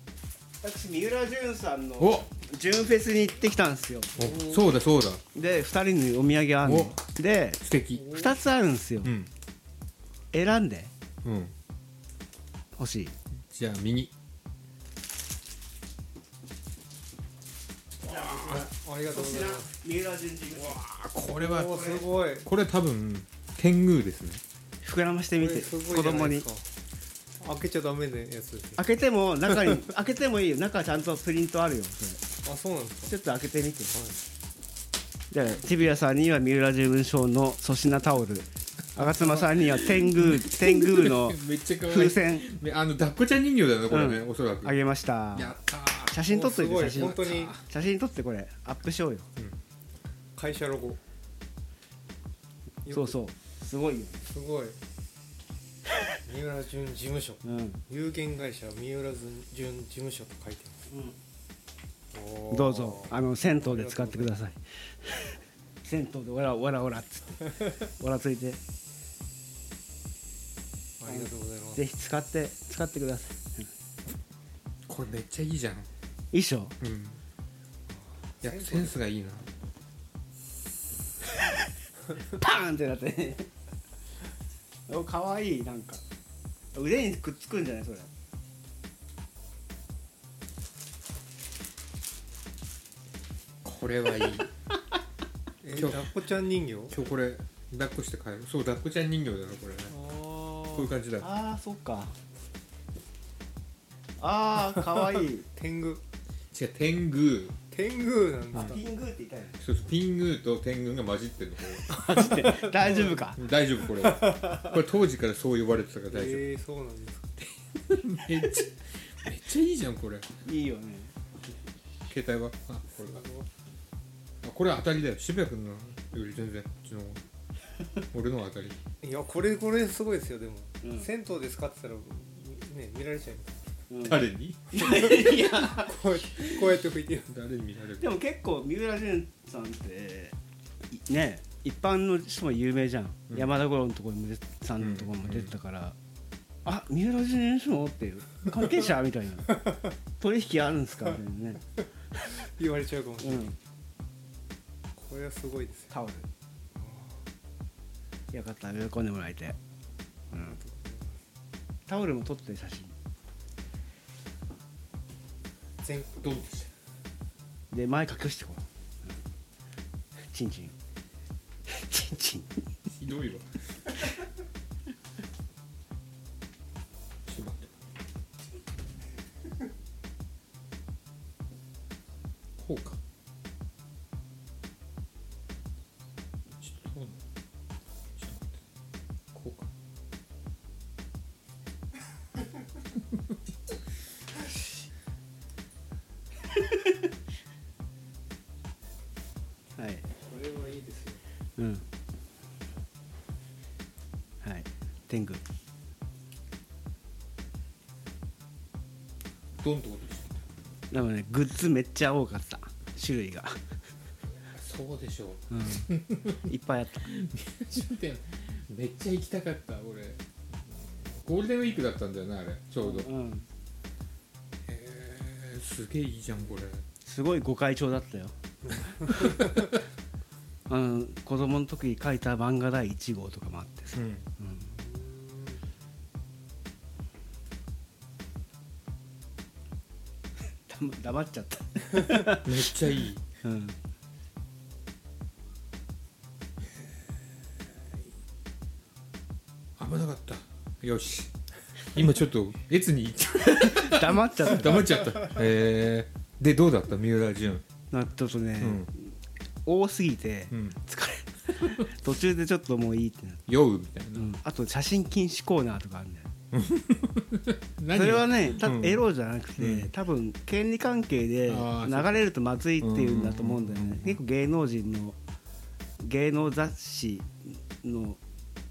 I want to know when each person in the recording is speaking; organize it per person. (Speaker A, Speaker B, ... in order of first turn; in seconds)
Speaker A: 0.6-4.2, 5.3-9.1, 10.3-10.9, 12.8-13.1, 18.1-20.8, 24.8-26.5, 28.8-32.2, 33.0-33.9, 35.3-42.5, 43.9-45.6, 46.1-49.3, 52.9-54.2, 57.4-57.8, 60.9-61.1, 62.5-68.6, 71.1-73.7, 76.3-76.7, 82.2-83.5, 84.9-86.0, 86.7-88.1, 101.2-102.1, 104.2-105.5, 108.5-109.5, 111.9-113.4, 120.4-121.1, 130.8-131.1, 133.9-136.0, 138.0-140.3, 140.9-145.9, 146.6-149.7, 150.2-151.6, 153.2-153.6, 155.9-156.3, 158.3-159.6, 160.3-160.6, 161.9-162.9, 167.7-169.1, 170.3-170.7, 171.7-172.6, 199.8-200.1, 201.6-201.8, 204.4-205.4, 210.9-213.6, 215.5-215.9, 216.4-217.1, 222.8-223.4, 227.1-228.3, 230.7-234.7, 240.7-242.7, 243.4-243.7, 253.6-255.1, 257.9-259.1, 259.6-263.4, 264.1-266.3, 267.9-275.1, 276.0-278.2
Speaker B: 2.0-2.3, 4.2-5.2, 6.6-7.0, 7.6-8.2, 9.0-9.3, 11.2-11.5, 13.5-14.1, 20.6-24.4, 39.0-44.8, 45.3-46.2, 46.8-47.6, 74.9-75.9, 76.8-77.2, 78.4-79.5, 93.6-94.5, 95.7-96.1, 96.9-100.0, 100.6-101.3, 106.5-107.6, 108.5-108.8, 109.6-116.5, 117.4-120.3, 122.1-123.3, 124.4-127.2, 128.1-128.8, 134.0-135.1, 137.3-138.1, 144.8-145.5, 166.1-166.7, 172.9-173.9, 177.3-177.8, 182.6-183.0, 186.6-187.2, 188.2-188.6, 189.3-189.7, 209.6-210.4, 214.5-216.5, 217.0-223.1, 224.7-226.9, 229.1-229.7, 233.9-234.3, 242.2-243.2, 249.8-251.3, 251.8-257.6, 258.6-258.9, 263.5-264.3, 266.5-269.1, 269.6-269.9, 271.5-272.3, 272.8-274.2
Speaker C: 4.2-4.6, 8.0-8.3, 18.2-19.7, 21.3-22.5, 25.4-26.6, 27.4-28.8, 32.4-33.1, 46.3-47.5, 50.3-51.0, 52.9-53.1, 54.3-54.8, 56.2-60.8, 62.1-64.3, 71.0-71.8, 78.4-78.9, 95.6-97.0, 99.9-100.9, 105.5-106.0, 107.7-108.8, 112.2-113.2, 114.0-114.7, 116.1-117.3, 123.0-123.5, 129.0-133.8, 134.8-137.3, 152.6-153.5, 154.9-155.9, 156.8-157.1, 160.3-161.2, 200.2-201.2, 228.6-229.7, 234.7-235.6